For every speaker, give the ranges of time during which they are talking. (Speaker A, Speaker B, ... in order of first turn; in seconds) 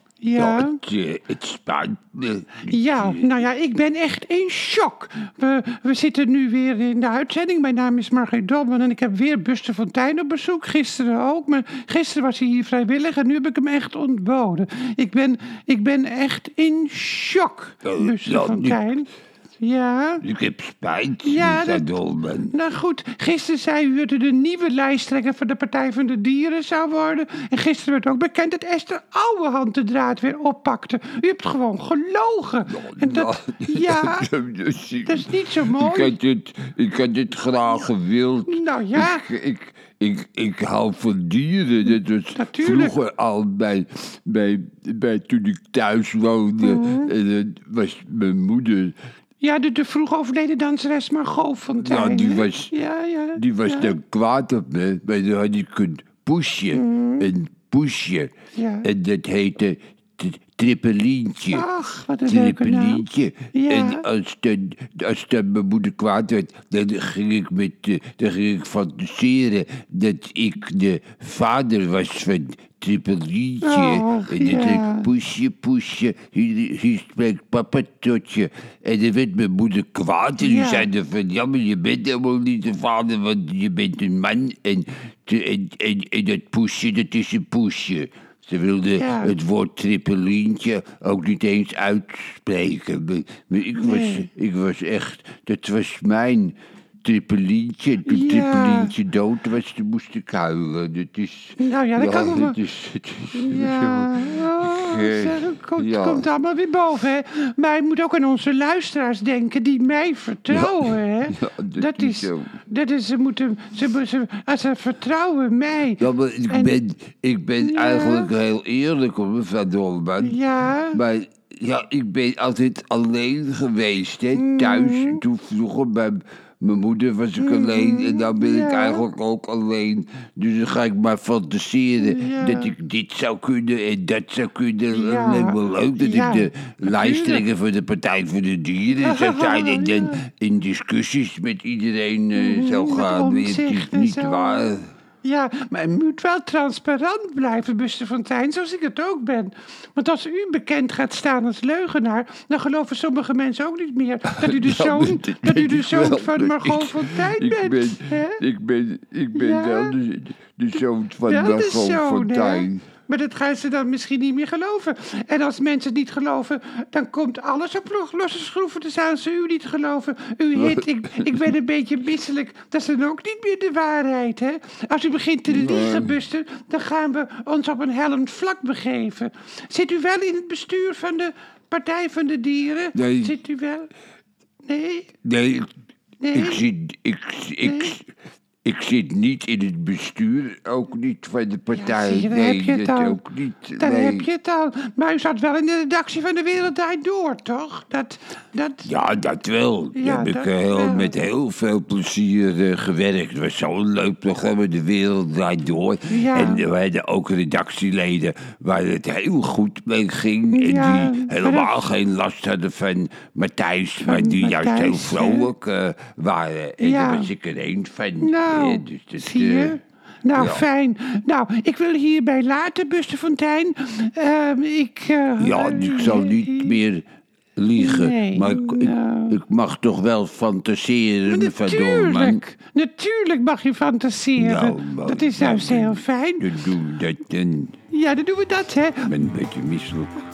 Speaker A: 0.2-0.8, 2.7-19.1, 19.6-20.2, 21.2-34.3, 35.0-36.1, 38.5-39.3, 42.4-43.0, 46.6-47.1, 49.4-54.0, 56.7-57.3, 58.5-58.9, 61.5-64.0, 73.6-75.1, 80.4-80.9, 89.0-89.3, 93.8-94.3, 98.0-99.0, 101.6-102.6, 103.3-116.8, 117.6-118.3, 120.2-121.0, 124.3-125.2, 127.4-129.0, 132.0-132.7, 134.9-137.4, 139.0-140.2, 142.3-158.4, 159.3-160.0, 161.2-183.9, 184.6-185.1, 186.2-186.6, 187.6-187.9, 191.7-193.2, 193.8-198.9, 199.9-201.2, 206.1-206.7, 210.5-211.7, 214.0-215.5, 216.8-217.3, 218.2-226.8, 227.8-229.4, 231.3-236.5, 237.9-239.1
Speaker B: 0.4-3.3, 17.8-18.8, 20.2-22.5, 32.7-49.0, 51.8-52.7, 53.4-61.7, 62.3-106.3, 110.5-112.5, 116.0-120.4, 120.9-144.9, 154.3-162.9, 170.6-171.5, 175.5-176.2, 182.9-183.3, 185.2-185.7, 186.3-188.1, 188.6-194.3, 198.8-219.8, 220.3-220.7, 225.4-227.1, 227.6-232.4, 234.4-237.8, 239.0-240.2